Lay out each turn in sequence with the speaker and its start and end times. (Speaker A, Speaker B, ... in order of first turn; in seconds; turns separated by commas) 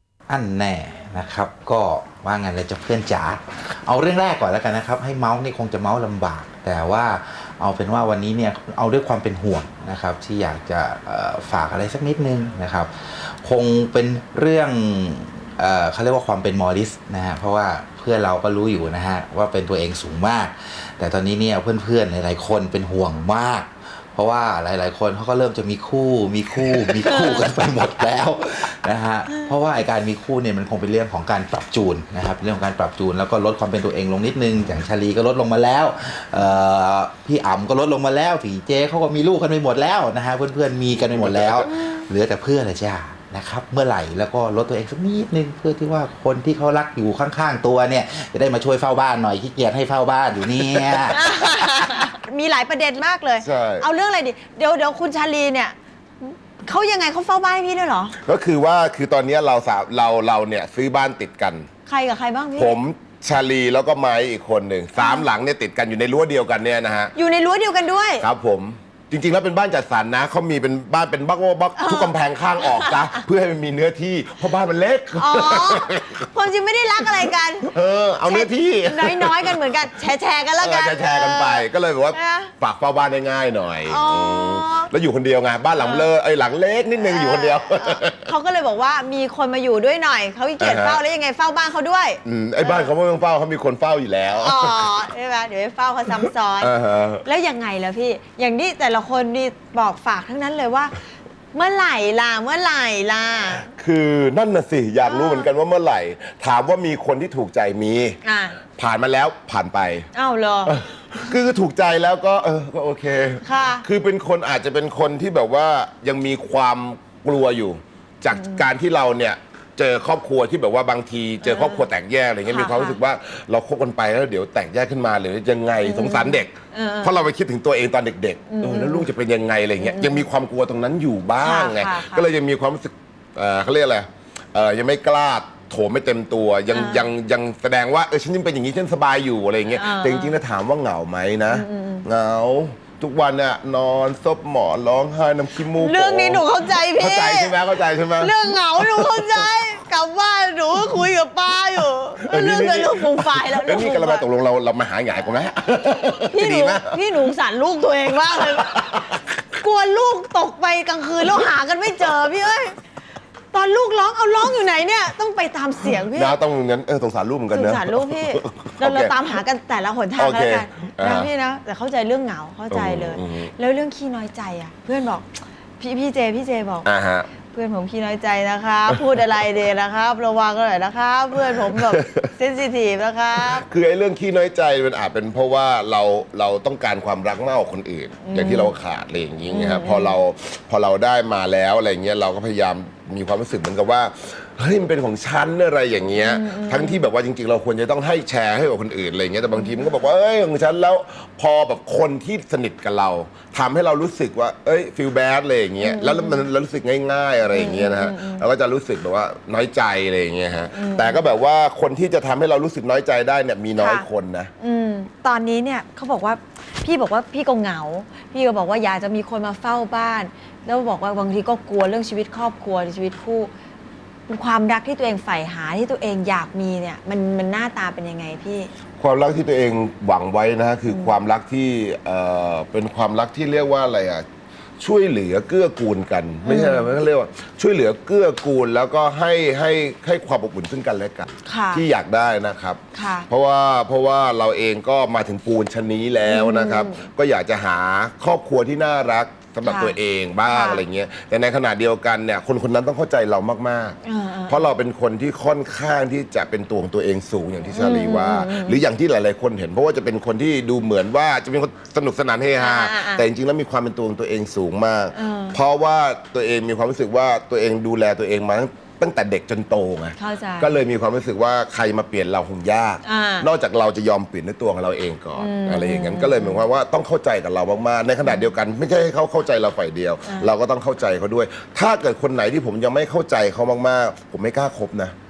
Speaker A: 0.3-51.2, Speaker B: 27.1-27.4, Speaker B: 51.1-58.1, Speaker C: 53.4-53.9, Speaker C: 58.2-61.7, Speaker B: 61.9-62.8, Speaker C: 62.6-67.1, Speaker B: 65.0-65.3, Speaker B: 67.2-68.2, Speaker C: 68.2-76.2, Speaker B: 71.8-73.2, Speaker B: 75.2-77.7, Speaker C: 77.6-79.8, Speaker B: 78.3-82.5, Speaker C: 80.6-88.3, Speaker B: 83.9-84.9, Speaker B: 85.8-86.1, Speaker B: 87.0-92.9, Speaker C: 90.6-91.0, Speaker C: 92.2-95.0, Speaker B: 94.3-96.7, Speaker C: 96.6-97.2, Speaker B: 97.2-101.0, Speaker B: 101.5-103.7, Speaker C: 103.8-108.2, Speaker B: 105.0-105.5, Speaker B: 108.2-108.6, Speaker C: 108.8-110.1, Speaker B: 110.1-110.7, Speaker C: 110.7-149.5, Speaker B: 113.4-113.8, Speaker B: 118.3-118.7, Speaker B: 121.4-121.9, Speaker B: 122.5-123.0, Speaker B: 125.8-127.2, Speaker B: 128.5-129.1, Speaker B: 129.8-130.3, Speaker B: 131.4-132.2, Speaker B: 136.7-137.1, Speaker B: 139.8-140.4, Speaker B: 141.5-142.1, Speaker B: 145.8-147.6, Speaker B: 148.2-154.2, Speaker C: 152.2-157.0, Speaker B: 156.3-159.0, Speaker C: 158.3-159.0, Speaker B: 159.6-162.8, Speaker B: 163.5-166.4, Speaker C: 165.9-169.4, Speaker B: 167.5-183.7, Speaker C: 170.2-171.3, Speaker C: 172.7-173.5, Speaker C: 176.8-177.3, Speaker C: 181.7-182.2, Speaker C: 183.5-214.5, Speaker B: 188.2-188.7, Speaker B: 189.5-190.2, Speaker B: 196.2-197.1, Speaker B: 199.5-199.9, Speaker B: 205.8-206.4, Speaker B: 207.5-208.5, Speaker B: 210.7-211.3, Speaker B: 213.8-214.1, Speaker B: 214.6-223.5, Speaker B: 224.3-228.7, Speaker C: 229.0-234.3, Speaker B: 230.9-231.1, Speaker C: 234.8-254.0, Speaker B: 236.4-236.9, Speaker B: 241.5-241.8, Speaker B: 242.9-243.3, Speaker B: 246.3-247.1, Speaker B: 249.7-250.0, Speaker B: 250.5-250.8, Speaker B: 254.0-254.7, Speaker C: 254.5-285.1, Speaker B: 257.7-258.8, Speaker B: 262.6-263.2, Speaker B: 265.1-265.6, Speaker B: 270.2-270.7, Speaker B: 273.0-273.5, Speaker B: 275.4-276.6, Speaker B: 280.3-280.5